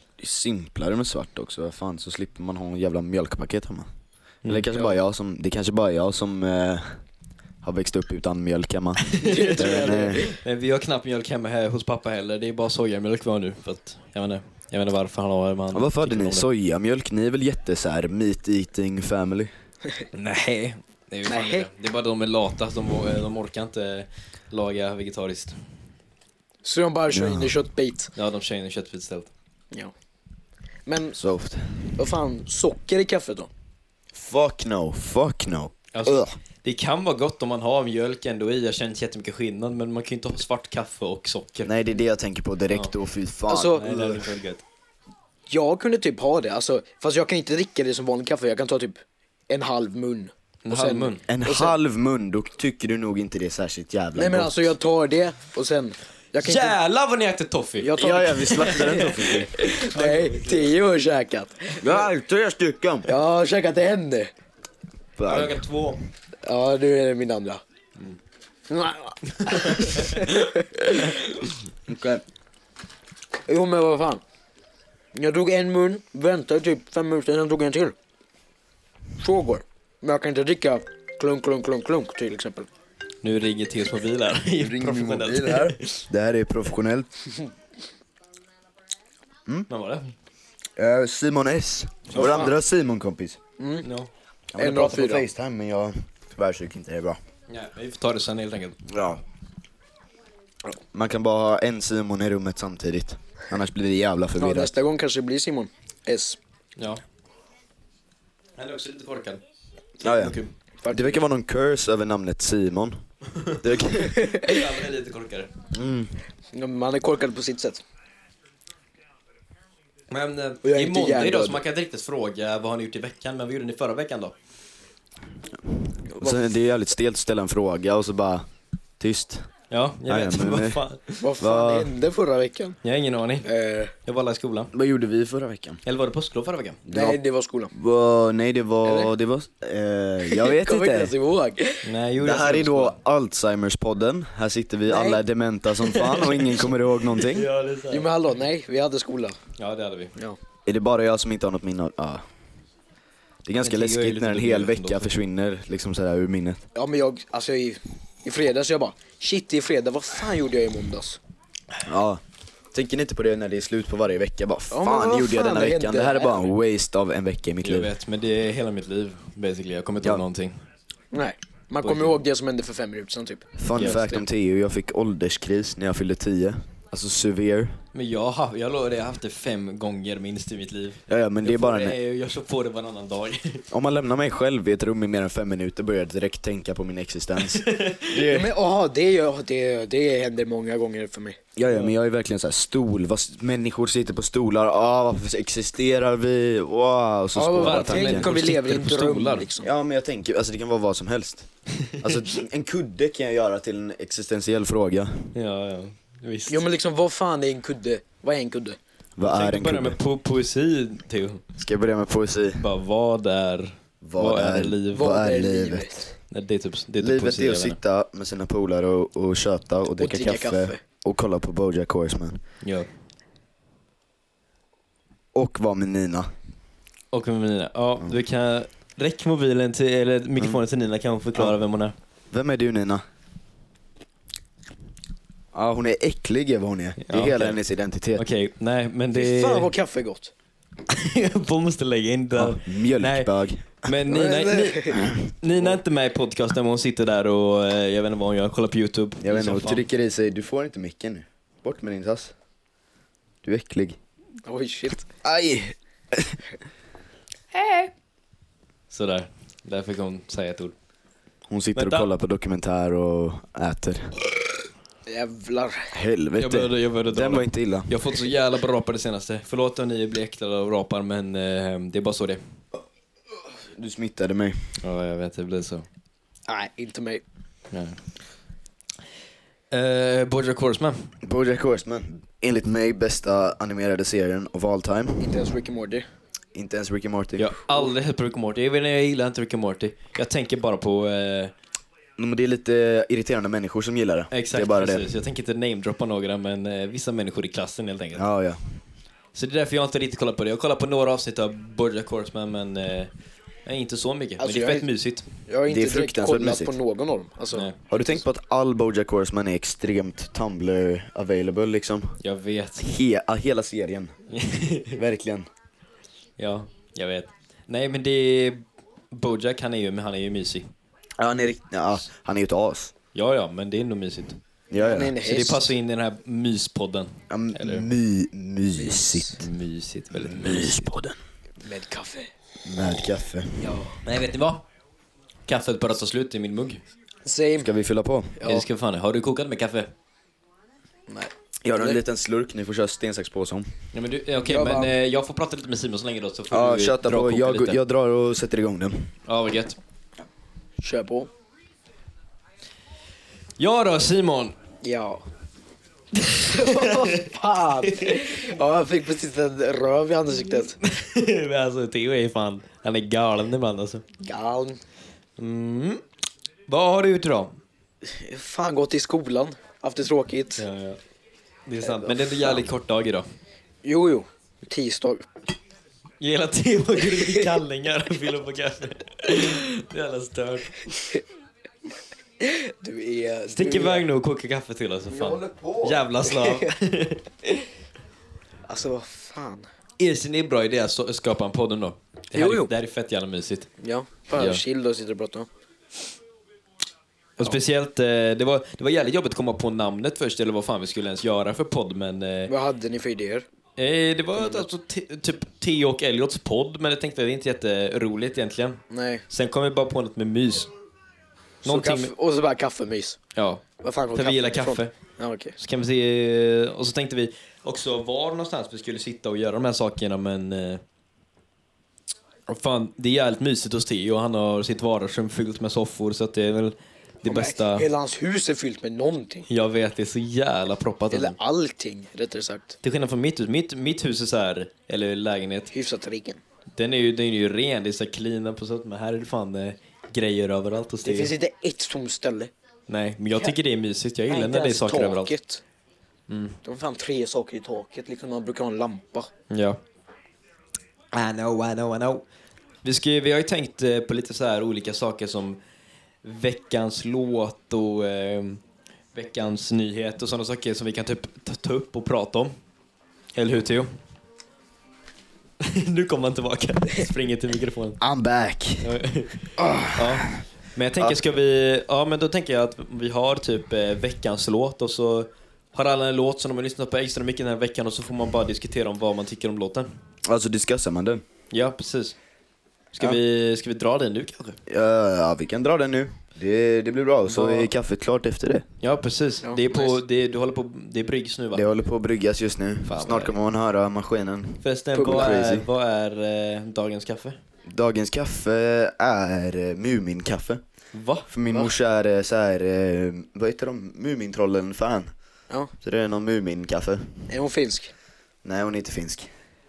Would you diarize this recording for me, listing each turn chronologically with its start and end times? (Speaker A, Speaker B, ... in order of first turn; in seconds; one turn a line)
Speaker A: 0.2-3.9
Speaker B: 4.4-4.9
Speaker A: 4.5-6.9
Speaker A: 7.6-10.3
Speaker B: 9.1-16.5
Speaker C: 9.2-10.4
Speaker A: 15.7-19.5
Speaker B: 20.1-25.6
Speaker C: 21.3-21.7
Speaker C: 26.6-28.1
Speaker A: 27.1-27.5
Speaker B: 28.1-29.3
Speaker C: 30.9-31.2
Speaker A: 31.2-31.8
Speaker C: 31.9-33.5
Speaker A: 34.1-36.3
Speaker B: 35.9-41.7
Speaker A: 41.6-44.2
Speaker C: 43.5-43.9
Speaker B: 43.7-44.6
Speaker C: 45.5-51.7
Speaker B: 50.6-51.2
Speaker A: 51.3-54.7
Speaker C: 54.1-56.7
Speaker B: 56.4-57.9
Speaker C: 57.8-62.0
Speaker A: 58.0-59.5
Speaker B: 58.6-60.7
Speaker A: 61.8-63.1
Speaker C: 63.0-64.3
Speaker A: 65.2-65.6
Speaker B: 65.2-66.0
Speaker C: 66.4-67.6
Speaker C: 68.7-71.3
Speaker B: 69.3-70.4
Speaker A: 71.9-72.2
Speaker C: 73.5-74.2
Speaker C: 75.1-77.9
Speaker C: 79.2-82.7
Speaker B: 83.2-86.1
Speaker A: 84.6-87.1
Speaker B: 89.7-90.1
Speaker A: 90.8-93.4
Speaker B: 92.1-92.3
Speaker C: 92.1-92.5
Speaker C: 93.6-93.8
Speaker B: 93.8-94.1
Speaker A: 94.5-97.2
Speaker C: 94.6-95.2
Speaker B: 97.5-98.8
Speaker A: 98.8-99.2
Speaker A: 100.9-104.7
Speaker C: 104.4-106.4
Speaker B: 106.8-107.0
Speaker B: 108.6-109.4
Speaker B: 110.0-110.5
Speaker A: 110.0-113.0
Speaker C: 110.8-111.1
Speaker A: 113.5-114.3
Speaker C: 114.2-114.5
Speaker B: 114.2-115.5
Speaker A: 115.7-116.1
Speaker C: 116.5-117.8
Speaker B: 120.1-124.3
Speaker C: 120.6-121.6
Speaker A: 125.7-128.4
Speaker C: 126.2-126.4
Speaker A: 129.0-129.5
Speaker B: 129.7-131.3
Speaker A: 130.1-130.8
Speaker C: 131.2-132.8
Speaker A: 131.4-131.9
Speaker B: 132.8-133.5
Speaker C: 133.4-133.9
Speaker B: 134.1-134.7
Speaker A: 134.7-135.8
Speaker B: 135.8-136.8
Speaker A: 136.9-137.2
Speaker C: 136.9-137.7
Speaker A: 137.7-141.1
Speaker C: 138.8-139.1
Speaker C: 140.3-141.8
Speaker B: 141.8-142.9
Speaker A: 142.2-147.5
Speaker C: 144.9-145.2
Speaker B: 145.9-148.1
Speaker C: 147.9-149.4
Speaker B: 149.6-150.1
Speaker A: 150.7-152.2
Speaker A: 153.4-156.6
Speaker B: 153.6-155.1
Speaker C: 156.7-161.2
Speaker A: 161.8-162.2
Speaker A: 162.7-167.9
Speaker C: 164.7-166.5
Speaker B: 167.6-170.6
Speaker C: 171.1-174.2
Speaker B: 171.8-172.2
Speaker A: 173.6-177.8
Speaker B: 173.8-174.0
Speaker B: 177.9-183.6
Speaker A: 181.1-181.9
Speaker A: 183.7-188.5
Speaker B: 187.4-188.2
Speaker C: 188.2-191.4
Speaker A: 191.6-198.3
Speaker B: 191.7-191.9
Speaker C: 197.3-199.7
Speaker B: 197.6-199.4
Speaker A: 199.6-201.5
Speaker B: 201.8-202.2
Speaker A: 202.0-205.3
Speaker B: 205.3-206.6
Speaker C: 206.5-208.8
Speaker A: 209.2-210.0
Speaker B: 209.2-211.4
Speaker A: 211.6-212.7
Speaker B: 212.6-215.1
Speaker A: 214.0-216.1
Speaker C: 214.9-216.1
Speaker B: 216.3-217.8
Speaker A: 217.0-222.4
Speaker C: 220.0-220.8
Speaker B: 222.6-222.9
Speaker A: 225.3-226.3
Speaker B: 227.1-231.9
Speaker A: 232.3-233.0
Speaker A: 235.5-238.2
Speaker B: 237.0-237.6
Speaker B: 238.2-239.7
Speaker C: 239.1-240.3
Speaker B: 240.9-243.3
Speaker A: 242.3-243.9
Speaker B: 243.8-249.8
Speaker C: 244.1-245.1
Speaker A: 244.9-245.3
Speaker A: 249.2-252.3
Speaker A: 253.4-254.0
Speaker C: 254.4-255.1
Speaker A: 255.2-256.4
Speaker B: 257.5-257.9
Speaker B: 258.9-260.7
Speaker A: 261.5-264.1
Speaker B: 261.7-262.1
Speaker C: 265.1-265.9
Speaker A: 265.9-267.9
Speaker B: 266.4-272.4
Speaker A: 273.7-274.6
Speaker B: 274.8-275.9
Speaker C: 276.5-277.2
Speaker B: 277.7-278.0
Speaker B: 279.7-281.1
Speaker A: 281.2-285.3
Speaker C: 285.2-286.1
Speaker A: 286.5-287.5
Speaker B: 287.4-291.5
Speaker A: 292.2-295.1
Speaker B: 294.3-298.2
Speaker A: 298.1-298.6
Speaker B: 299.3-303.1
Speaker B: 303.6-305.3
Speaker C: 304.4-304.9
Speaker C: 305.5-307.7
Speaker A: 305.7-306.7
Speaker A: 307.9-312.2
Speaker B: 312.2-312.9
Speaker A: 312.8-314.1
Speaker B: 314.3-315.0
Speaker A: 314.9-315.5
Speaker B: 316.4-320.7
Speaker A: 321.2-322.9
Speaker B: 323.1-324.4
Speaker A: 324.7-325.2
Speaker C: 324.7-325.6
Speaker B: 325.2-327.9
Speaker A: 327.3-329.4
Speaker C: 328.8-329.4
Speaker B: 329.4-330.9
Speaker A: 330.1-331.2
Speaker C: 331.6-332.3
Speaker A: 332.6-333.7
Speaker C: 333.6-334.0
Speaker B: 334.0-334.6
Speaker B: 335.4-336.8
Speaker C: 337.2-337.7
Speaker A: 337.6-338.4
Speaker C: 338.4-338.6
Speaker B: 338.4-339.9
Speaker C: 341.1-342.0
Speaker A: 341.6-343.7
Speaker B: 343.9-347.8
Speaker C: 344.4-344.9
Speaker A: 346.5-349.1
Speaker B: 349.3-349.8
Speaker C: 350.8-351.3
Speaker B: 353.6-354.6
Speaker C: 354.8-355.2
Speaker B: 356.1-357.3
Speaker C: 356.4-360.8
Speaker B: 357.8-358.4
Speaker B: 360.8-364.0
Speaker C: 364.2-364.8
Speaker B: 365.4-366.0
Speaker B: 366.7-367.6
Speaker C: 368.0-370.6
Speaker B: 370.6-371.0
Speaker B: 371.6-373.3
Speaker C: 371.9-372.6
Speaker C: 373.8-375.2
Speaker B: 376.2-380.8
Speaker C: 382.4-384.1
Speaker B: 383.5-387.2
Speaker A: 385.2-385.9
Speaker C: 386.3-386.7
Speaker C: 388.7-389.7
Speaker B: 390.0-393.7
Speaker C: 392.3-392.7
Speaker C: 393.8-395.5
Speaker B: 394.3-394.6
Speaker B: 397.4-402.5
Speaker C: 402.5-403.4
Speaker B: 403.8-410.7
Speaker C: 408.9-409.2
Speaker C: 411.6-413.2
Speaker B: 411.6-412.1
Speaker B: 413.4-414.9
Speaker C: 413.8-415.6
Speaker B: 415.6-420.8
Speaker B: 422.5-427.9
Speaker C: 427.2-429.4
Speaker B: 429.5-431.4
Speaker C: 431.1-432.8
Speaker B: 432.8-435.7
Speaker C: 435.7-436.4
Speaker B: 436.8-441.3
Speaker C: 441.0-442.5
Speaker B: 442.9-445.3
Speaker C: 444.3-445.6
Speaker B: 446.3-446.6
Speaker C: 446.6-449.3
Speaker B: 449.5-449.8
Speaker B: 451.1-452.2
Speaker B: 452.8-455.6
Speaker B: 456.2-458.6
Speaker B: 459.1-462.5
Speaker B: 463.3-463.9
Speaker B: 465.6-468.0
Speaker A: 468.0-468.9
Speaker B: 468.8-479.9
Speaker A: 469.6-470.4
Speaker A: 480.2-481.2
Speaker B: 481.5-482.1
Speaker B: 482.9-484.6
Speaker A: 484.7-488.6
Speaker B: 487.3-487.7
Speaker B: 488.8-491.7
Speaker C: 489.4-489.9
Speaker A: 491.5-495.7
Speaker B: 492.8-493.3
Speaker B: 494.6-497.4
Speaker A: 497.7-500.6
Speaker B: 500.9-501.3
Speaker A: 501.3-505.1
Speaker A: 505.8-507.2
Speaker C: 507.3-507.9
Speaker A: 508.4-509.3